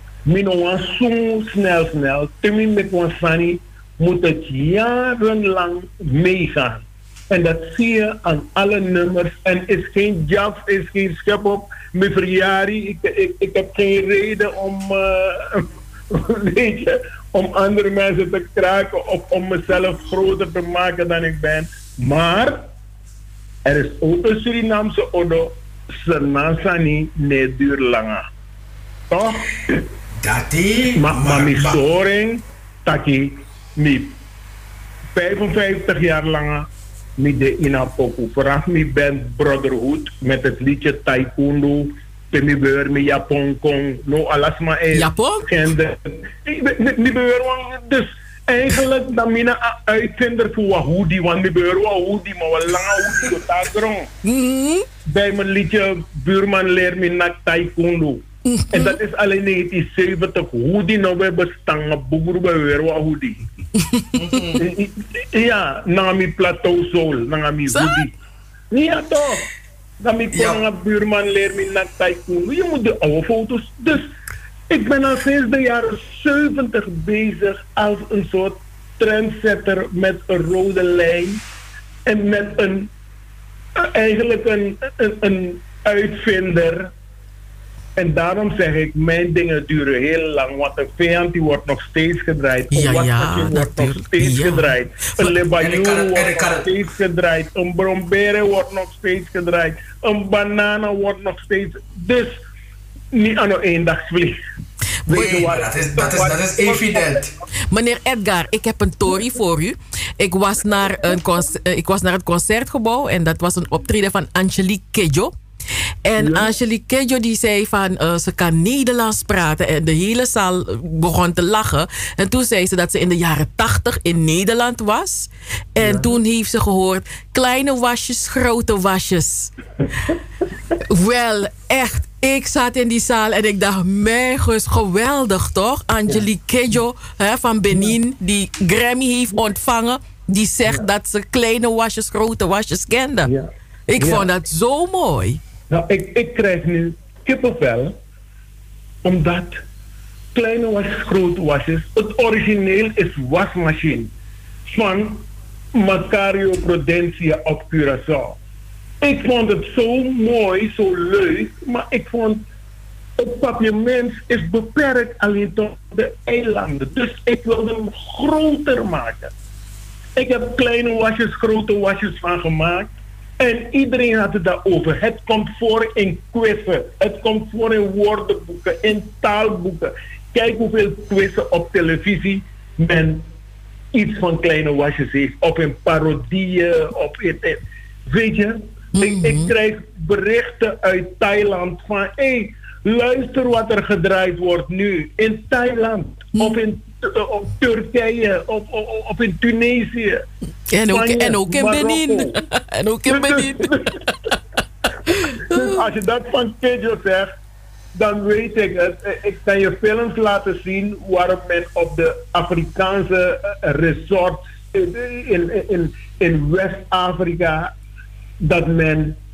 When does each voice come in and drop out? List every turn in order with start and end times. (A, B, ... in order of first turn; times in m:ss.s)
0:00.3-0:22.7 A
0:23.6-0:28.3 A
0:29.1-0:29.8 A
0:30.2-0:31.8 B
0:31.0-0:34.2 A
0:35.2-0:36.7 A
0:37.2-0:54.1 A
0:44.9-0:45.4 C
0:54.2-0:54.9 C
0:55.1-1:03.4 A
0:58.5-0:59.0 C
1:03.9-1:04.4 C
1:04.2-1:04.6 B
1:04.6-1:08.1 A
1:07.7-1:08.0 C
1:08.7-1:09.5 A
1:10.0-1:14.1 A
1:10.3-1:10.6 B
1:14.7-1:21.4 A
1:22.1-1:22.9 A
1:23.8-1:26.9 A
1:28.0-1:42.4 A
1:32.7-1:34.7 C
1:35.6-1:36.7 B
1:43.1-1:44.4 A
1:45.1-1:47.3 A
1:45.1-1:47.3 B
1:47.7-1:55.3 C
1:56.0-2:09.5 C
1:56.2-1:56.5 A
2:05.8-2:06.2 A
2:10.8-2:23.3 C
2:23.2-2:24.3 A
2:23.9-2:25.4 C
2:25.7-2:28.0 A
2:29.0-2:29.6 A
2:30.3-2:34.1 A
2:34.7-2:38.4 A
2:39.0-2:42.4 A
2:43.2-2:49.3 A
2:50.2-3:03.3 A
3:03.9-3:20.2 A
3:09.0-3:09.5 C
3:20.7-3:24.2 C
3:20.9-3:22.4 A
3:23.1-3:24.0 A
3:25.1-3:25.8 C
3:25.1-3:27.3 A
3:28.0-3:37.7 A
3:38.4-3:39.2 A